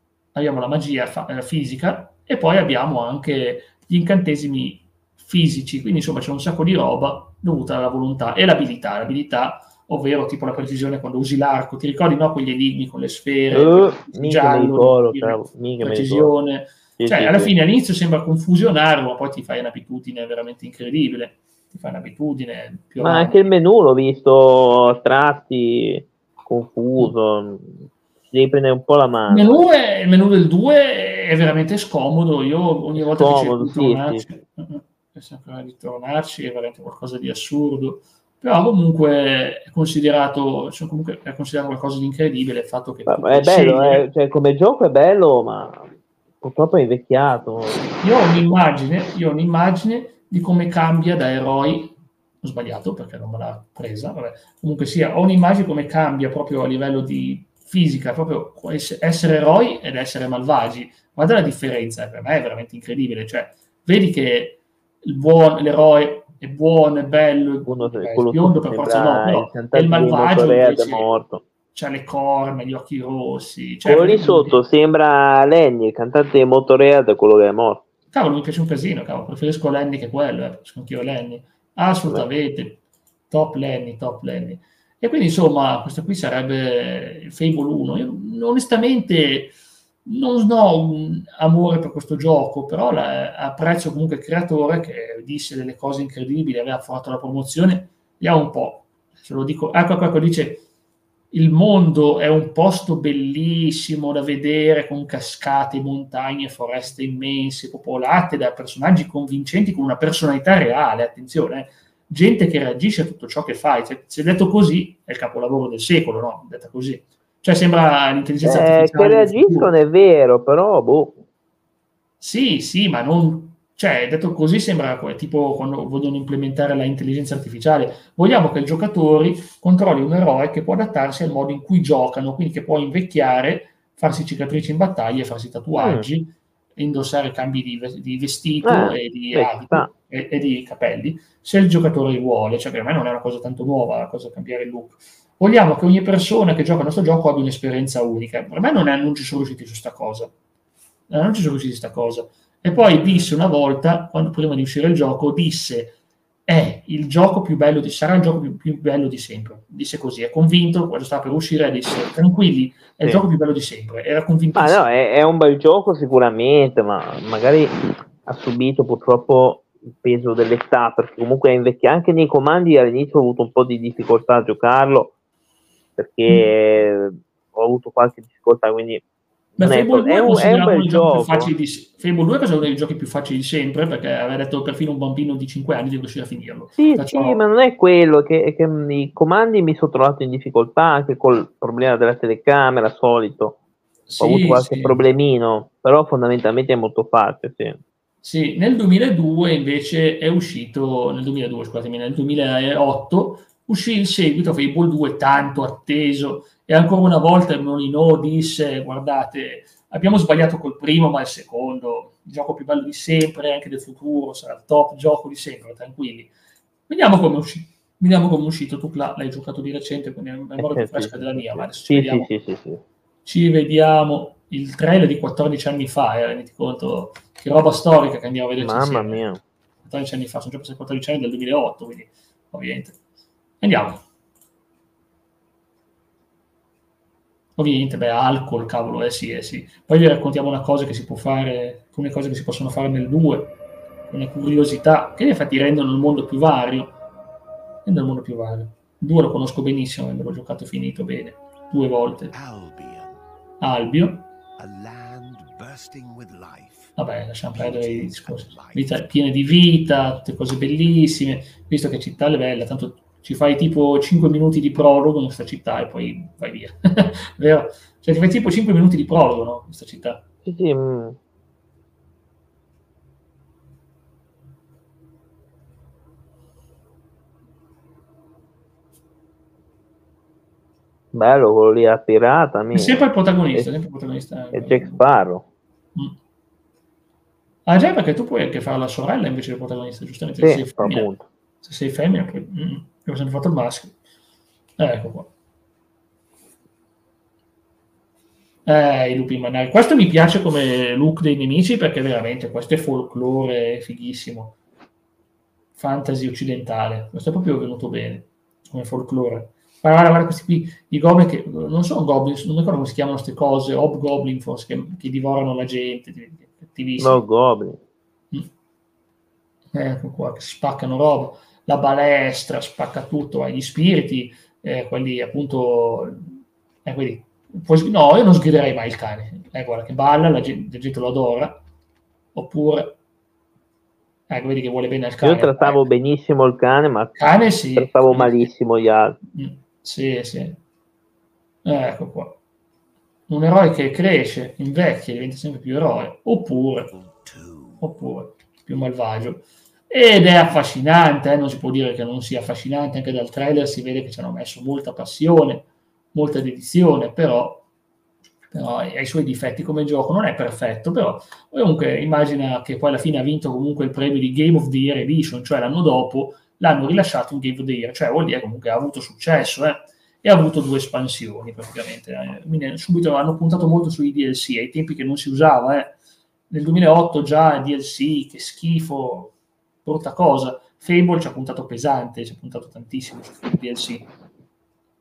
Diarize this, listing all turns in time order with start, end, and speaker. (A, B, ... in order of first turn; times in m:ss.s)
0:00.3-0:23.5 A
0:13.5-0:16.3 B
0:17.0-0:17.5 B
0:23.0-0:29.6 B
0:29.3-0:44.1 A
0:32.9-0:34.2 B
0:43.1-0:47.8 B
0:47.7-1:11.1 A
1:07.6-1:11.4 B
1:11.7-1:14.6 A
1:13.8-1:17.8 B
1:18.1-1:40.6 A
1:41.3-1:59.8 A
1:58.4-2:01.2 B
2:02.2-2:30.3 A
2:15.8-2:16.1 B
2:18.6-2:19.9 B
2:31.1-2:44.9 A
2:32.8-2:33.3 B
2:44.6-2:47.7 B
2:48.2-2:55.1 B
2:56.0-2:59.0 B
2:59.6-3:07.4 A
2:59.6-3:01.5 B
3:06.8-3:13.6 B
3:14.1-3:15.0 A
3:14.2-3:17.8 B
3:18.2-3:36.3 A
3:36.9-3:42.3 A
3:40.6-3:42.8 B
3:43.2-3:49.3 A
3:48.6-3:49.4 B
3:49.8-3:53.0 A
3:53.6-3:54.0 A
3:57.6-4:03.6 A
4:04.1-4:07.0 A
4:07.8-4:12.3 A
4:12.3-4:13.2 C
4:13.6-4:14.3 A
4:14.6-4:17.0 C
4:17.0-4:30.2 A
4:17.5-4:19.0 C
4:30.4-4:31.2 B
4:41.1-4:43.7 B
4:42.7-4:45.0 A
4:44.5-4:45.4 B
4:47.6-4:51.1 A
4:50.4-4:51.3 B
4:51.6-4:53.9 A
4:54.8-4:55.3 A
4:58.6-5:04.6 A
5:05.8-5:17.3 A
5:17.0-5:17.8 B
5:19.7-5:31.6 A
5:32.3-5:33.0 A
5:34.3-5:35.8 A
5:35.2-5:37.2 B
5:37.2-5:38.5 A
5:37.8-5:39.2 B
5:39.3-5:40.6 A
5:41.6-5:42.4 A
5:43.3-5:46.9 A
5:46.9-5:47.8 C
5:47.8-5:57.6 A
5:58.5-6:16.0 A
6:16.5-6:19.3 A
6:19.8-6:24.0 A